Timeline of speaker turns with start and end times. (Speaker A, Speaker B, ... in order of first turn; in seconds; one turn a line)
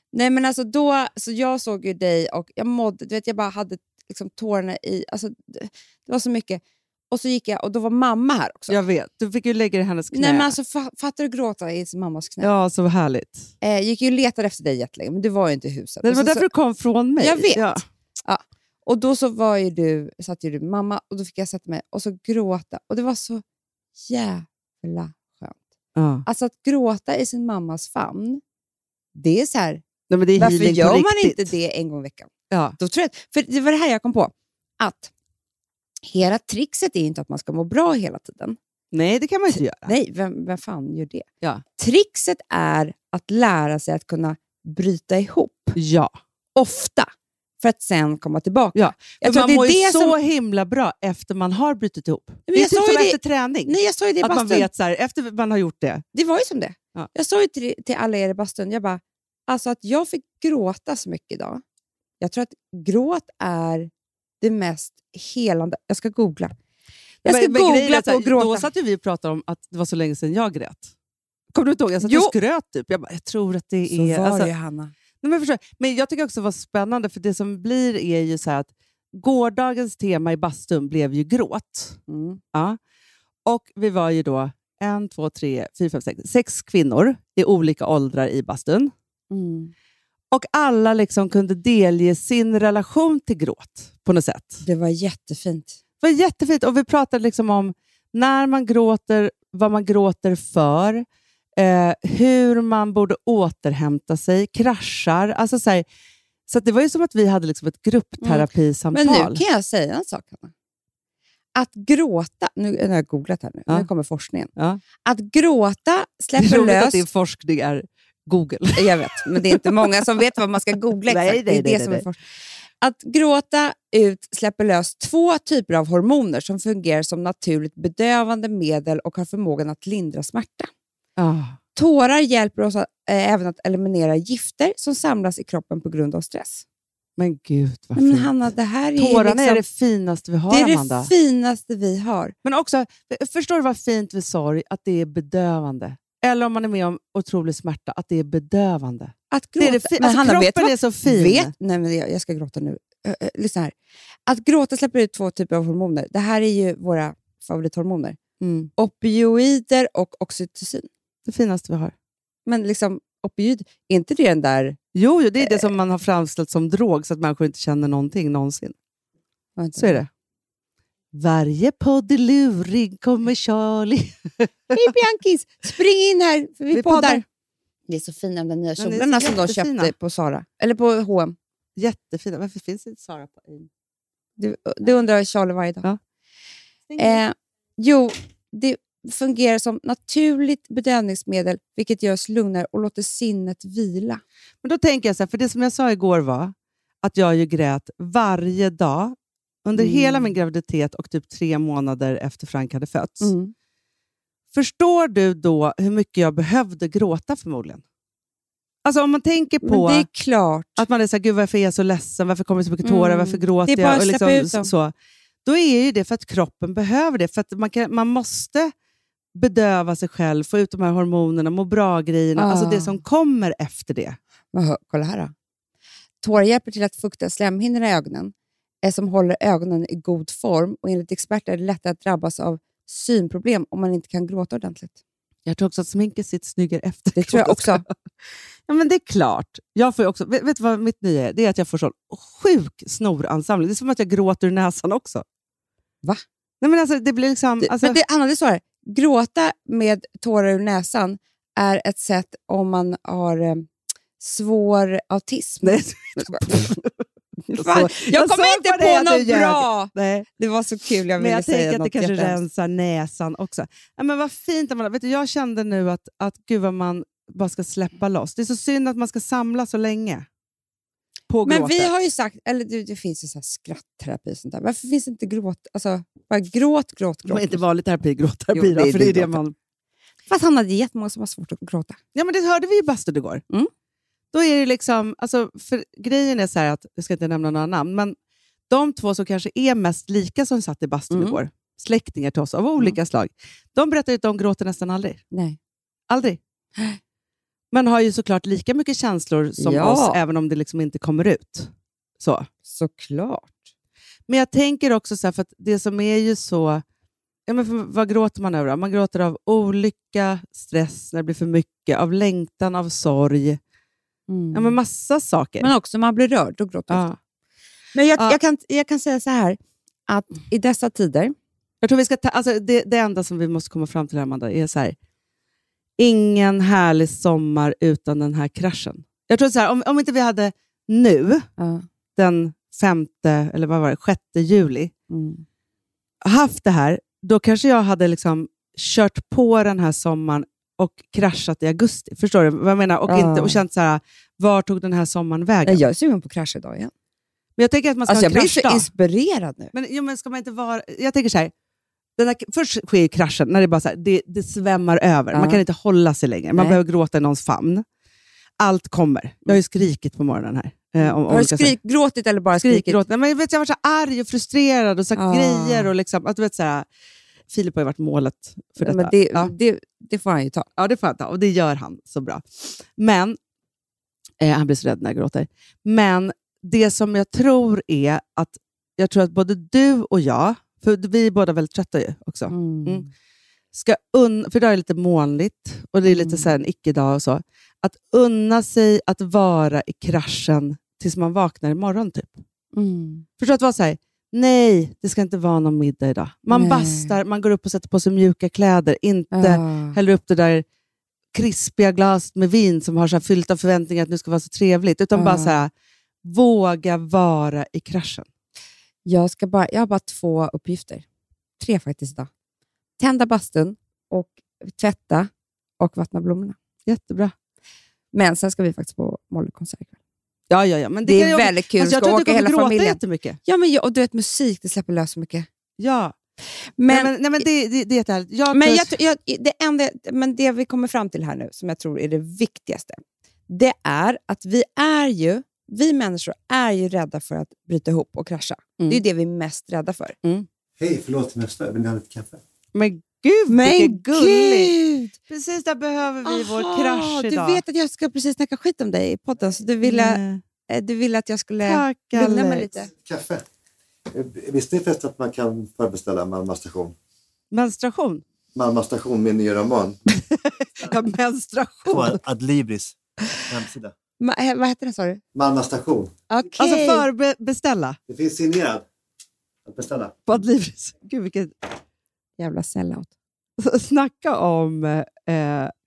Speaker A: 0.1-8.8
Speaker B: 8.7-10.5
Speaker A: 10.1-12.5
Speaker B: 12.4-13.5
Speaker A: 13.6-16.5
Speaker B: 16.0-17.8
Speaker A: 17.2-23.4
Speaker A: 24.0-25.6
Speaker B: 25.9-26.2
Speaker A: 26.2-28.4
Speaker A: 29.1-29.8
Speaker B: 30.1-31.5
Speaker A: 30.4-35.1
Speaker B: 32.5-32.8
Speaker A: 36.1-38.6
Speaker B: 38.9-39.9
Speaker A: 39.5-41.2
Speaker A: 41.8-45.8
Speaker B: 45.8-46.1
Speaker A: 46.5-47.1
Speaker A: 47.6-50.1
Speaker B: 48.7-56.0
Speaker A: 52.5-54.7
Speaker A: 56.1-61.6
Speaker A: 62.2-63.9
Speaker A: 64.4-66.5
Speaker A: 67.2-68.7
Speaker B: 67.2-70.9
Speaker B: 71.5-74.5
Speaker A: 72.0-72.3
Speaker A: 73.9-74.9
Speaker B: 75.2-82.0
Speaker A: 82.1-82.4
Speaker B: 83.4-88.9
Speaker A: 89.3-89.7
Speaker B: 90.3-94.6
Speaker A: 94.6-95.8
Speaker B: 96.0-101.0
Speaker B: 101.6-105.8
Speaker B: 106.5-109.4
Speaker A: 108.2-110.5
Speaker A: 111.5-114.5
Speaker A: 115.0-117.0
Speaker B: 116.4-120.2
Speaker A: 118.8-122.2
Speaker B: 121.0-122.0
Speaker A: 122.8-130.7
Speaker B: 131.2-131.6
Speaker A: 131.8-136.6
Speaker B: 137.2-141.1
Speaker A: 137.9-139.6
Speaker A: 140.5-142.3
Speaker B: 142.4-151.5
Speaker A: 149.3-153.7
Speaker A: 154.2-158.2
Speaker B: 158.4-158.7
Speaker A: 158.8-160.9
Speaker B: 161.3-161.9
Speaker A: 162.4-164.8
Speaker B: 164.9-168.7
Speaker A: 165.4-165.7
Speaker A: 169.6-170.0
Speaker B: 169.8-170.1
Speaker B: 171.1-174.9
Speaker A: 174.7-177.2
Speaker B: 176.7-177.2
Speaker A: 177.9-181.3
Speaker B: 178.8-179.9
Speaker B: 181.8-183.7
Speaker A: 184.4-185.9
Speaker B: 186.9-187.2
Speaker A: 187.0-194.2
Speaker B: 194.6-203.3
Speaker A: 199.7-200.3
Speaker A: 203.2-203.5
Speaker B: 204.5-207.8
Speaker B: 208.8-210.1
Speaker A: 209.6-210.8
Speaker B: 210.8-214.9
Speaker A: 212.8-214.7
Speaker B: 215.4-218.7
Speaker B: 219.3-224.2
Speaker A: 222.3-223.0
Speaker A: 224.5-225.3
Speaker A: 226.2-234.9
Speaker B: 235.4-237.9
Speaker A: 237.2-237.8
Speaker B: 238.7-245.2
Speaker B: 246.6-248.0
Speaker A: 247.6-253.7
Speaker A: 254.2-256.5
Speaker B: 255.6-257.0
Speaker A: 257.4-262.4
Speaker B: 257.5-260.3
Speaker B: 261.2-270.2
Speaker B: 271.3-271.9
Speaker A: 271.4-277.6
Speaker B: 277.2-279.5
Speaker A: 278.5-279.4
Speaker A: 280.3-282.0
Speaker B: 282.1-283.4
Speaker B: 284.3-288.1
Speaker B: 288.7-295.2
Speaker A: 291.1-291.4
Speaker A: 295.3-295.6
Speaker B: 296.1-296.4
Speaker B: 297.7-301.7
Speaker A: 299.6-300.2
Speaker B: 302.2-302.5
Speaker A: 302.7-303.7
Speaker B: 304.3-306.8
Speaker B: 307.5-313.6
Speaker A: 314.3-314.8
Speaker B: 314.5-315.7
Speaker A: 315.6-317.1
Speaker B: 316.9-317.2
Speaker A: 317.9-321.3
Speaker B: 321.8-324.9
Speaker B: 326.0-331.5
Speaker A: 331.6-331.8
Speaker B: 332.1-334.9
Speaker A: 335.1-335.4
Speaker B: 336.2-345.8
Speaker A: 343.1-343.6
Speaker A: 345.6-346.9
Speaker B: 347.6-348.9
Speaker A: 348.1-349.7
Speaker B: 349.7-351.5
Speaker B: 352.2-357.8
Speaker A: 355.3-355.6
Speaker B: 358.6-361.7
Speaker A: 361.0-363.0
Speaker B: 362.6-366.9
Speaker A: 365.1-365.9
Speaker B: 367.5-369.5
Speaker A: 368.8-370.7
Speaker B: 370.8-373.4
Speaker B: 374.4-383.1
Speaker A: 382.5-383.1
Speaker B: 383.7-392.4
Speaker A: 386.0-386.5
Speaker A: 392.7-393.2
Speaker B: 393.4-400.6
Speaker A: 396.5-397.1
Speaker A: 399.3-400.0
Speaker B: 401.3-405.7
Speaker A: 405.1-405.6
Speaker B: 406.2-408.3
Speaker A: 409.0-411.0
Speaker A: 411.6-412.3
Speaker A: 413.0-415.3
Speaker A: 415.8-416.6
Speaker B: 416.9-417.3
Speaker A: 418.1-419.9
Speaker B: 420.5-423.4
Speaker A: 421.0-425.5
Speaker B: 425.8-426.1
Speaker A: 426.8-427.1
Speaker B: 426.9-428.9
Speaker A: 428.5-440.1
Speaker C: 440.8-442.4
Speaker B: 442.7-444.7
Speaker A: 443.5-445.1
Speaker B: 445.3-447.6
Speaker A: 446.2-452.9
Speaker B: 449.8-450.4
Speaker B: 451.6-452.6
Speaker C: 452.9-453.4
Speaker C: 454.1-456.9
Speaker B: 457.5-458.2
Speaker C: 458.5-460.0
Speaker B: 460.3-462.2
Speaker C: 461.9-462.9
Speaker C: 463.5-463.9
Speaker A: 464.2-465.2
Speaker C: 465.3-466.1
Speaker A: 466.3-467.1
Speaker B: 466.6-468.0
Speaker C: 468.1-468.8
Speaker C: 469.6-470.2
Speaker B: 470.3-471.5
Speaker A: 472.4-473.1
Speaker B: 473.6-475.7